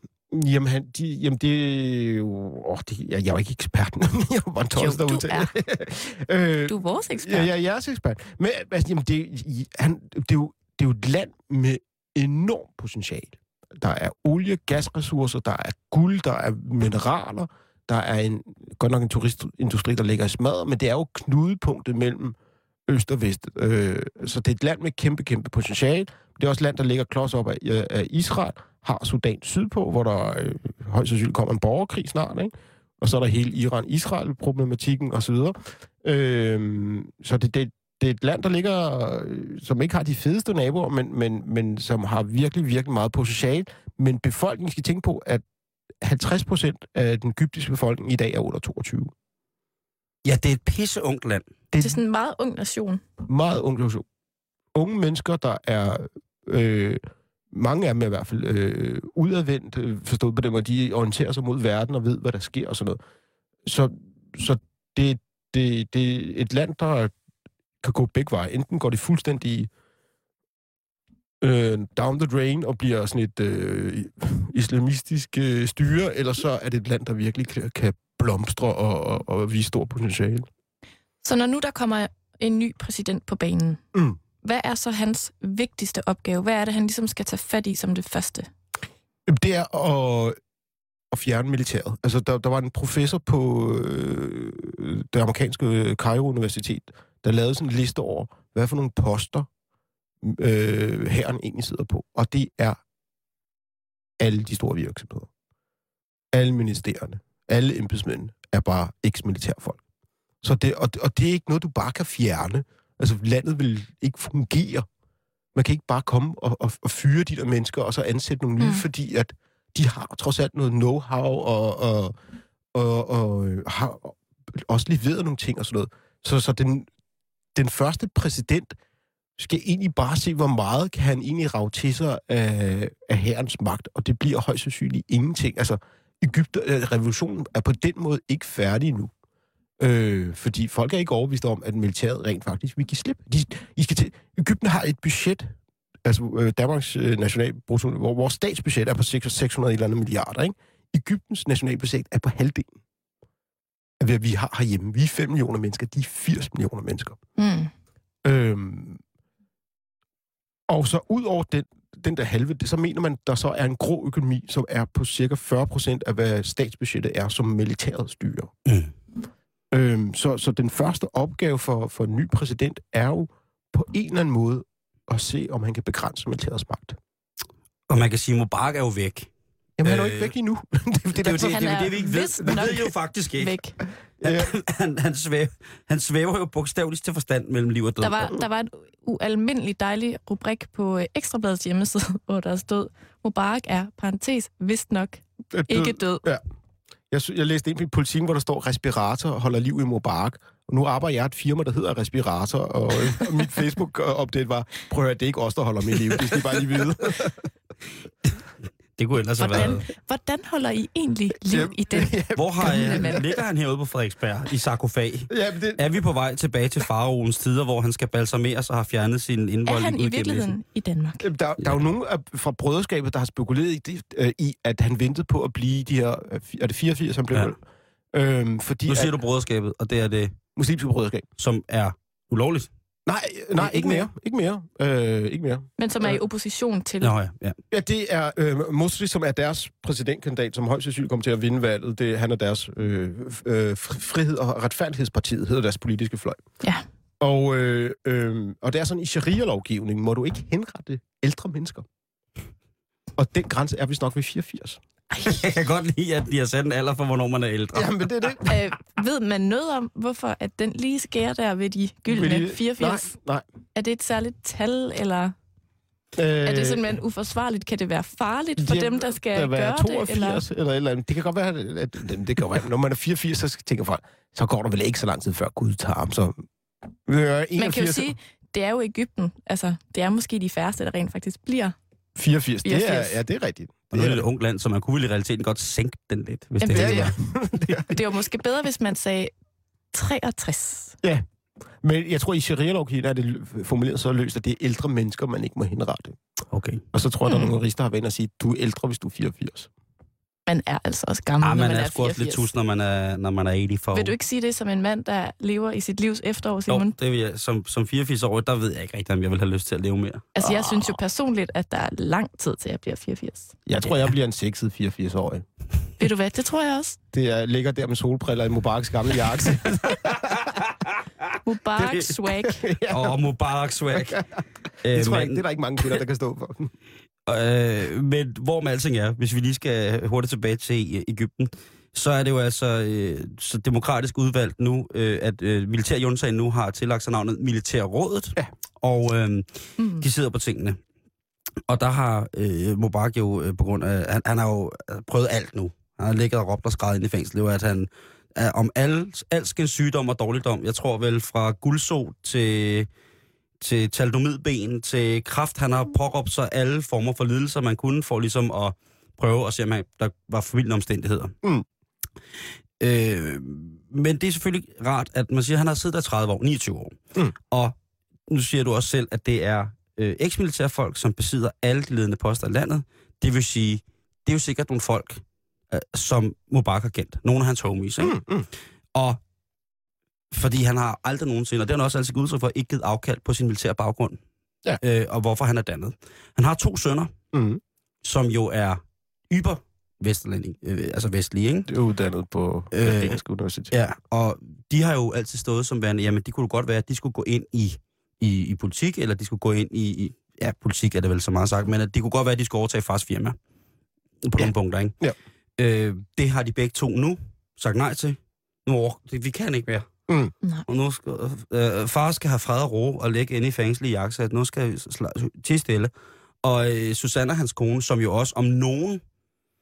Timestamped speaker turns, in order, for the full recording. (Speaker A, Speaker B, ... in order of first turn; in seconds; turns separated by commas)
Speaker A: 0.3-22.4, Speaker B: 4.8-5.5, Speaker B: 6.7-7.5, Speaker A: 22.9-45.4, Speaker A: 46.0-49.1, Speaker C: 50.2-51.5, Speaker A: 51.7-52.0, Speaker B: 51.8-53.0, Speaker A: 53.3-54.0, Speaker A: 54.7-57.0, Speaker A: 57.5-63.0, Speaker A: 63.6-67.1, Speaker A: 67.8-69.7, Speaker A: 71.4-80.5, Speaker B: 81.2-83.8, Speaker B: 84.4-88.5, Speaker A: 89.3-90.4, Speaker A: 91.1-99.5, Speaker A: 100.2-102.8, Speaker A: 104.2-105.3, Speaker A: 106.3-109.8, Speaker A: 110.4-114.9, Speaker A: 115.5-122.1, Speaker A: 122.7-126.9, Speaker A: 127.5-128.7, Speaker A: 129.4-139.1, Speaker A: 139.8-152.7, Speaker A: 154.0-157.2, Speaker B: 157.4-157.7, Speaker A: 158.2-159.0, Speaker A: 160.7-168.5, Speaker C: 168.7-168.9, Speaker A: 169.7-177.0, Speaker C: 177.9-179.3, Speaker A: 179.8-182.7, Speaker C: 179.8-180.3, Speaker C: 181.2-183.6, Speaker B: 181.4-183.8, Speaker C: 184.2-188.2, Speaker A: 184.2-184.5, Speaker B: 188.0-196.2, Speaker A: 195.5-196.4, Speaker A: 197.1-207.3, Speaker C: 209.0-209.8, Speaker B: 209.4-213.2, Speaker A: 211.5-213.4, Speaker C: 212.4-220.5, Speaker A: 215.3-215.8, Speaker B: 219.7-221.3, Speaker A: 221.2-227.6, Speaker A: 228.1-229.2, Speaker C: 228.9-230.4, Speaker A: 230.6-231.2, Speaker C: 231.4-232.7, Speaker A: 233.1-236.2, Speaker C: 233.6-234.0, Speaker B: 235.8-237.1, Speaker C: 237.0-237.6, Speaker A: 237.7-246.4, Speaker A: 247.2-251.8, Speaker A: 253.2-254.8, Speaker B: 255.1-255.4, Speaker C: 255.2-258.0, Speaker A: 257.7-258.5, Speaker B: 258.4-263.1, Speaker A: 262.1-263.4, Speaker B: 263.7-265.3, Speaker A: 266.1-266.9, Speaker B: 266.4-270.4, Speaker A: 268.6-276.4, Speaker A: 277.1-278.1, Speaker B: 277.6-281.8, Speaker A: 282.1-284.2, Speaker B: 282.6-283.2, Speaker C: 283.9-287.1, Speaker B: 286.6-287.2, Speaker A: 286.7-288.0, Speaker B: 287.9-289.3, Speaker B: 289.9-290.9, Speaker A: 291.8-296.2, Speaker C: 296.5-296.8, Speaker A: 296.9-299.7, Speaker B: 297.3-297.6, Speaker B: 300.5-302.5, Speaker C: 301.4-304.1, Speaker B: 303.9-306.9, Speaker C: 306.7-310.3, Speaker B: 310.4-313.5, Speaker A: 310.4-310.9, Speaker A: 313.6-315.4, Speaker B: 316.0-317.0, Speaker A: 317.1-320.4, Speaker C: 319.9-320.8, Speaker B: 321.4-322.6, Speaker A: 322.3-323.2, Speaker C: 322.9-324.2, Speaker A: 323.9-326.7, Speaker C: 324.8-325.4, Speaker C: 327.3-340.8, Speaker B: 339.8-340.0, Speaker C: 341.7-352.9, Speaker C: 353.6-361.3, Speaker C: 362.8-367.0, Speaker C: 368.3-378.2, Speaker A: 378.0-378.5, Speaker C: 378.9-379.2, Speaker C: 380.3-384.2, Speaker C: 384.8-387.1, Speaker A: 387.3-387.6, Speaker C: 388.0-391.7, Speaker A: 391.7-393.7, Speaker C: 392.7-393.2, Speaker C: 393.7-403.4, Speaker C: 404.2-404.9, Speaker A: 404.4-405.1, Speaker C: 405.6-409.9, Speaker A: 410.1-410.3, Speaker C: 410.7-415.9, Speaker C: 416.4-419.0